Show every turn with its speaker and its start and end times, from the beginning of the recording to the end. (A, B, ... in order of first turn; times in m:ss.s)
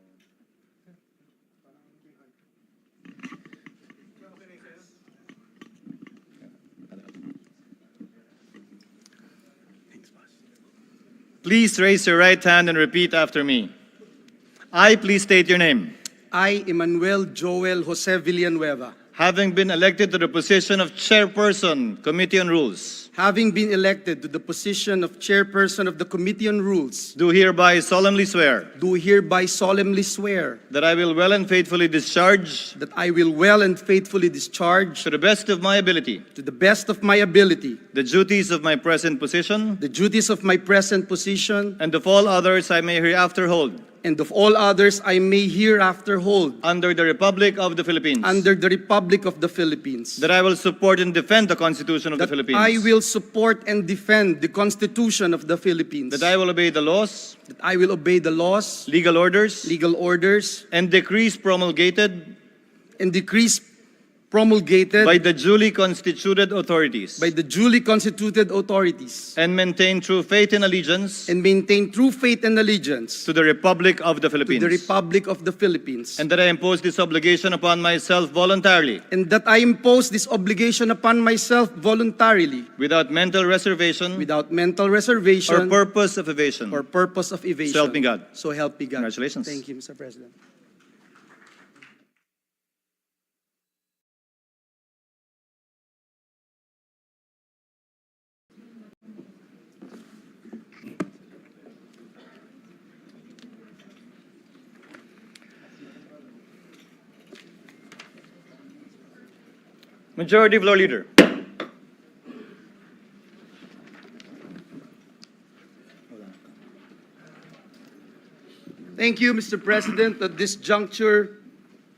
0:11.4-0:13.7 A
0:14.7-0:15.9 A
0:16.3-0:18.9 B
0:19.1-0:23.1 A
0:23.1-0:27.1 B
0:27.2-0:28.7 A
0:28.8-0:30.6 B
0:30.7-0:32.8 A
0:32.8-0:35.0 B
0:35.0-0:36.2 A
0:36.4-0:37.8 B
0:37.9-0:39.8 A
0:39.8-0:41.8 B
0:41.8-0:43.8 A
0:44.0-0:46.6 B
0:46.6-0:48.4 A
0:48.2-0:50.3 B
0:50.2-0:52.9 A
0:52.2-0:56.3 B
0:56.1-0:57.4 A
0:57.5-0:58.9 B
0:58.9-0:59.8 A
0:59.6-1:00.6 B
1:00.7-1:02.3 A
1:03.0-1:03.6 B
1:04.3-1:05.2 B
1:05.0-1:07.3 A
1:07.2-1:09.4 B
1:09.4-1:11.3 A
1:11.3-1:13.3 B
1:13.2-1:14.9 A
1:14.4-1:16.2 B
1:16.2-1:19.0 A
1:19.1-1:22.7 B
1:22.8-1:24.3 A
1:24.2-1:25.8 B
1:25.5-1:26.8 A
1:26.7-1:30.3 B
1:27.6-1:28.3 A
1:29.0-1:29.6 A
1:50.2-1:51.3 A
1:59.0-2:01.4 B